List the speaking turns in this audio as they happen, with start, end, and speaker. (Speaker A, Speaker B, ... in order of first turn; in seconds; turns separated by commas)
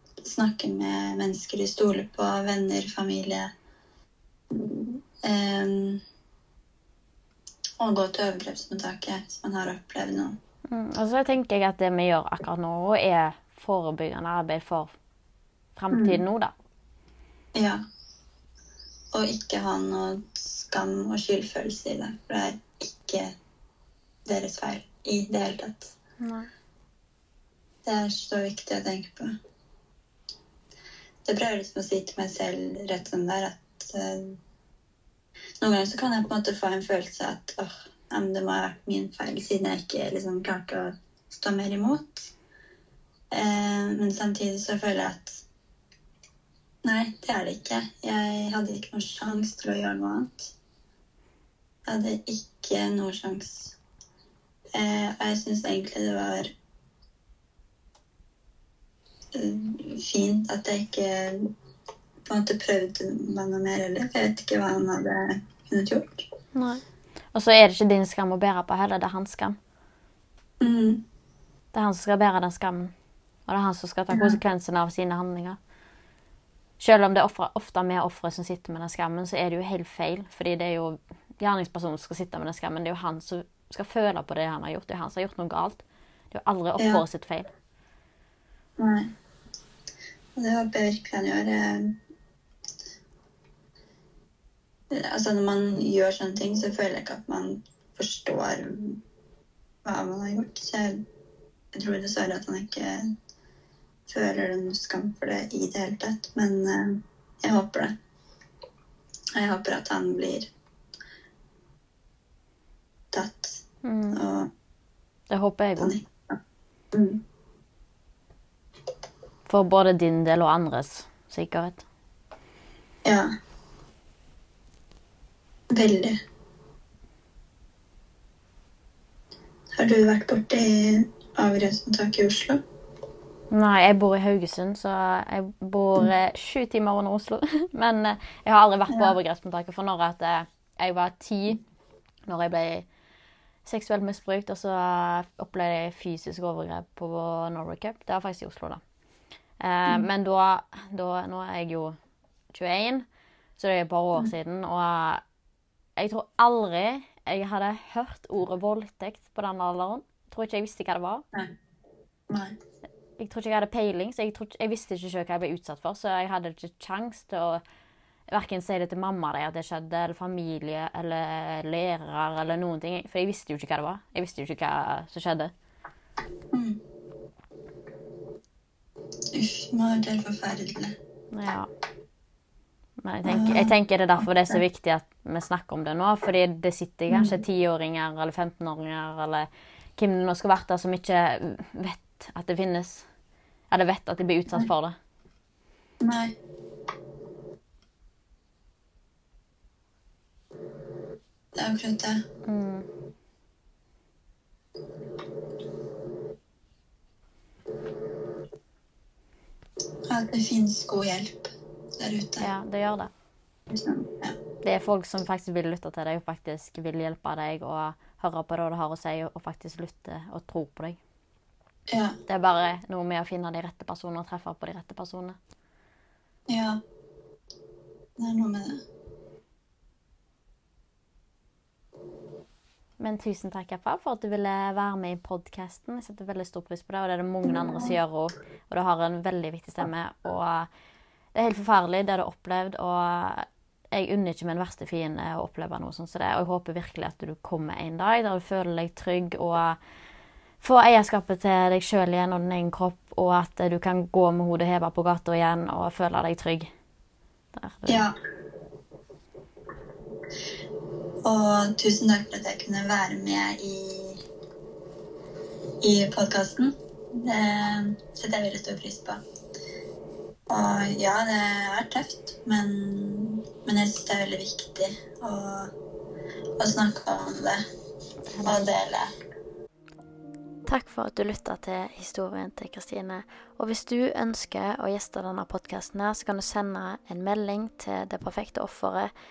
Speaker A: 0.2-3.5, Speaker A: 4.5-6.0, Speaker A: 7.8-10.3, Speaker B: 10.7-14.9, Speaker B: 15.8-16.5, Speaker A: 15.9-16.2, Speaker A: 17.5-17.8, Speaker A: 19.1-23.3, Speaker A: 24.2-25.9, Speaker B: 26.2-26.5, Speaker A: 27.8-29.3, Speaker A: 31.2-34.4, Speaker A: 35.6-42.3, Speaker A: 43.3-45.4, Speaker A: 46.8-50.5, Speaker A: 51.9-53.7, Speaker A: 54.7-56.5, Speaker A: 59.3-61.5, Speaker A: 62.2-66.2, Speaker B: 66.5-66.8, Speaker B: 67.3-69.6, Speaker A: 70.6-71.0, Speaker B: 71.7-72.9, Speaker B: 73.5-75.6, Speaker A: 74.1-74.4, Speaker B: 76.8-87.5, Speaker A: 86.8-87.0, Speaker A: 88.8-89.1, Speaker A: 90.3-91.9, Speaker A: 94.9-99.0, Speaker A: 99.8-101.0, Speaker A: 101.7-103.1, Speaker A: 104.1-107.9, Speaker A: 109.3-110.5, Speaker A: 113.1-114.5, Speaker B: 113.8-114.2, Speaker B: 115.3-116.0, Speaker A: 115.8-116.4, Speaker A: 116.9-117.2, Speaker B: 119.5-121.8, Speaker A: 125.7-126.2, Speaker A: 129.8-132.6, Speaker B: 133.5-141.6, Speaker B: 142.3-142.8, Speaker B: 143.6-148.8, Speaker B: 149.6-152.0, Speaker B: 152.5-153.1, Speaker B: 153.6-155.2, Speaker B: 156.0-161.2, Speaker B: 163.2-167.6, Speaker B: 168.3-175.5, Speaker A: 176.5-176.8, Speaker A: 179.3-180.9, Speaker B: 181.3-181.7, Speaker B: 183.0-193.1, Speaker A: 183.2-184.6, Speaker A: 187.1-187.4, Speaker B: 193.7-194.9, Speaker A: 196.0-196.3, Speaker A: 201.6-202.2, Speaker B: 202.4-202.9, Speaker A: 210.1-212.5, Speaker B: 212.4-213.1, Speaker A: 213.7-214.3, Speaker B: 214.6-221.0, Speaker B: 222.3-225.4, Speaker A: 226.5-226.8, Speaker A: 228.2-228.8, Speaker B: 233.0-240.7, Speaker A: 237.4-237.9, Speaker B: 241.3-249.8, Speaker B: 250.6-256.7, Speaker B: 257.5-258.1, Speaker A: 257.9-258.1, Speaker A: 261.2-264.2, Speaker A: 265.8-269.2, Speaker A: 270.5-275.7, Speaker A: 276.6-277.6, Speaker B: 278.4-278.6, Speaker A: 278.4-279.1, Speaker B: 280.6-289.1